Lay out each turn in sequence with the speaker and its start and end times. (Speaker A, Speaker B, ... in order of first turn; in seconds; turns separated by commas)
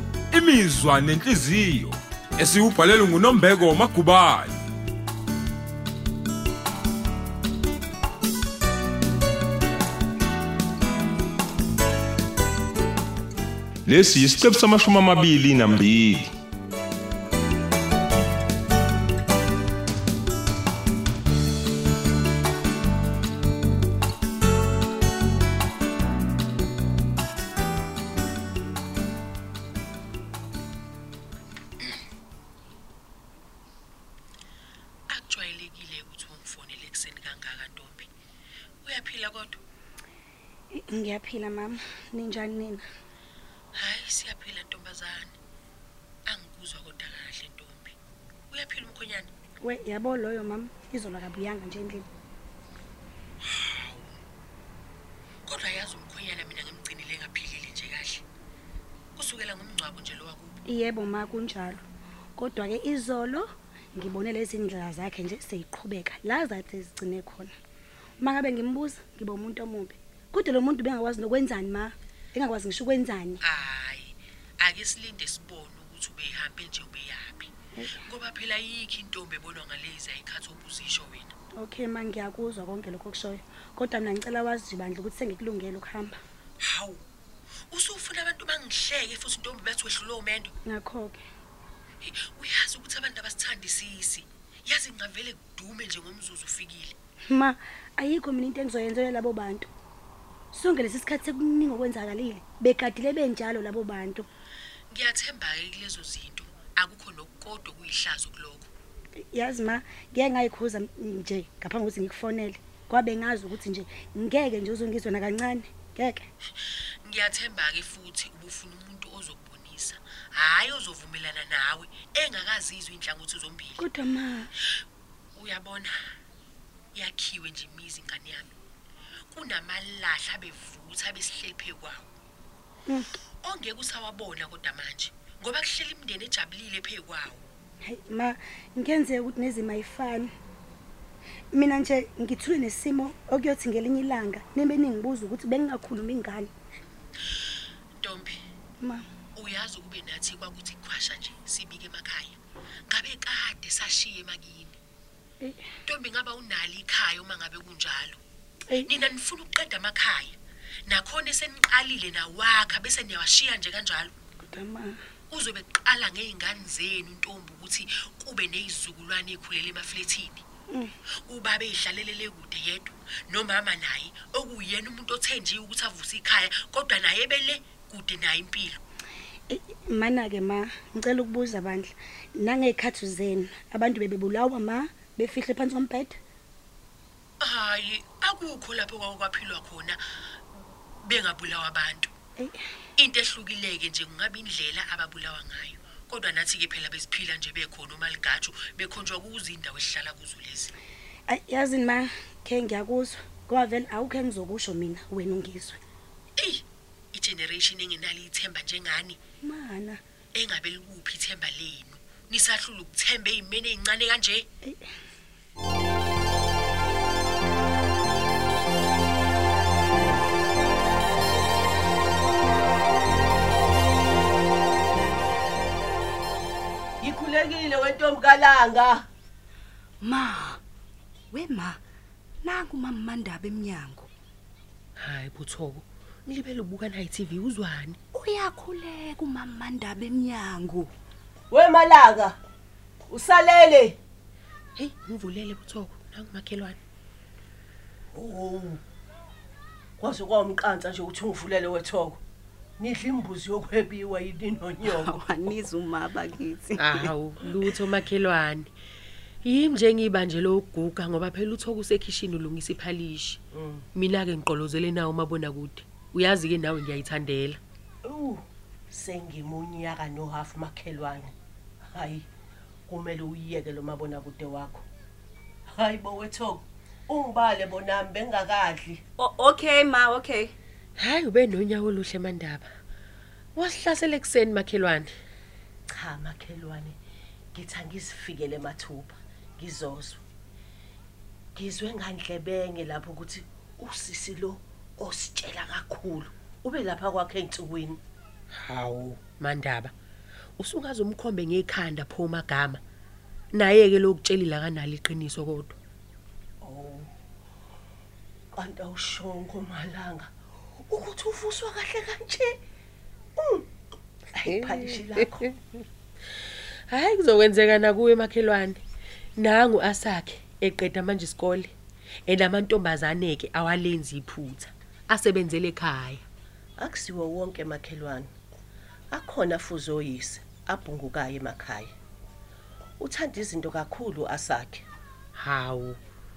Speaker A: 0.3-4.6, Speaker A: 13.9-16.3, Speaker B: 35.1-38.1, Speaker B: 38.9-39.6, Speaker C: 40.7-42.8, Speaker B: 43.8-45.4, Speaker B: 46.3-48.0, Speaker B: 48.5-49.3, Speaker C: 49.6-52.1, Speaker B: 53.4-54.2, Speaker B: 55.5-58.2, Speaker B: 59.2-60.6, Speaker C: 60.7-61.8, Speaker C: 62.4-67.5, Speaker C: 68.2-73.4, Speaker B: 73.4-81.3, Speaker C: 77.8-78.0, Speaker C: 81.6-86.2, Speaker B: 86.6-87.0, Speaker B: 87.7-90.5, Speaker C: 90.7-91.2, Speaker B: 92.0-97.0, Speaker C: 97.3-99.7, Speaker C: 100.5-104.3, Speaker B: 104.9-108.7, Speaker C: 109.2-116.3, Speaker B: 117.0-123.9, Speaker C: 123.8-124.5, Speaker B: 125.4-126.0, Speaker B: 127.0-128.6, Speaker B: 129.3-132.1, Speaker B: 133.4-137.5, Speaker C: 137.8-140.3, Speaker C: 141.5-146.5, Speaker B: 148.0-148.4, Speaker B: 149.3-152.4, Speaker B: 152.9-154.8, Speaker B: 155.9-158.2, Speaker B: 158.8-164.1, Speaker C: 164.5-165.0, Speaker B: 165.3-170.4, Speaker B: 171.3-178.8, Speaker C: 179.5-186.2, Speaker B: 187.4-190.0, Speaker B: 191.0-192.1, Speaker B: 193.0-200.7, Speaker C: 201.3-205.8, Speaker B: 206.4-209.2, Speaker C: 209.4-210.0, Speaker B: 210.3-214.5, Speaker D: 227.0-229.1, Speaker E: 230.0-230.6, Speaker E: 231.3-231.8, Speaker E: 232.4-234.1, Speaker B: 235.0-238.0, Speaker E: 238.1-240.9, Speaker D: 241.5-242.4, Speaker D: 243.1-244.0, Speaker B: 244.8-246.8, Speaker D: 248.1-248.8, Speaker D: 250.0-252.2, Speaker D: 252.8-255.5, Speaker E: 254.8-257.1, Speaker B: 256.8-258.7, Speaker B: 259.4-263.4, Speaker D: 263.5-263.8, Speaker B: 263.9-267.6, Speaker D: 268.0-271.3, Speaker D: 271.9-272.3, Speaker D: 272.9-274.8, Speaker D: 275.7-279.0, Speaker E: 279.2-280.5, Speaker B: 281.0-282.7, Speaker B: 283.6-285.1, Speaker D: 285.9-287.0, Speaker D: 287.5-290.2, Speaker D: 291.6-298.0, Speaker B: 299.4-299.9, Speaker B: 300.6-302.8, Speaker B: 303.5-305.8, Speaker D: 306.6-307.1, Speaker D: 308.5-310.3, Speaker D: 310.9-312.6, Speaker D: 313.4-313.7, Speaker D: 314.3-315.5, Speaker B: 315.2-315.5, Speaker B: 316.9-318.8, Speaker B: 319.4-321.7, Speaker B: 322.3-326.2, Speaker D: 326.8-328.3, Speaker D: 329.1-331.9, Speaker D: 333.0-334.9, Speaker B: 335.4-336.0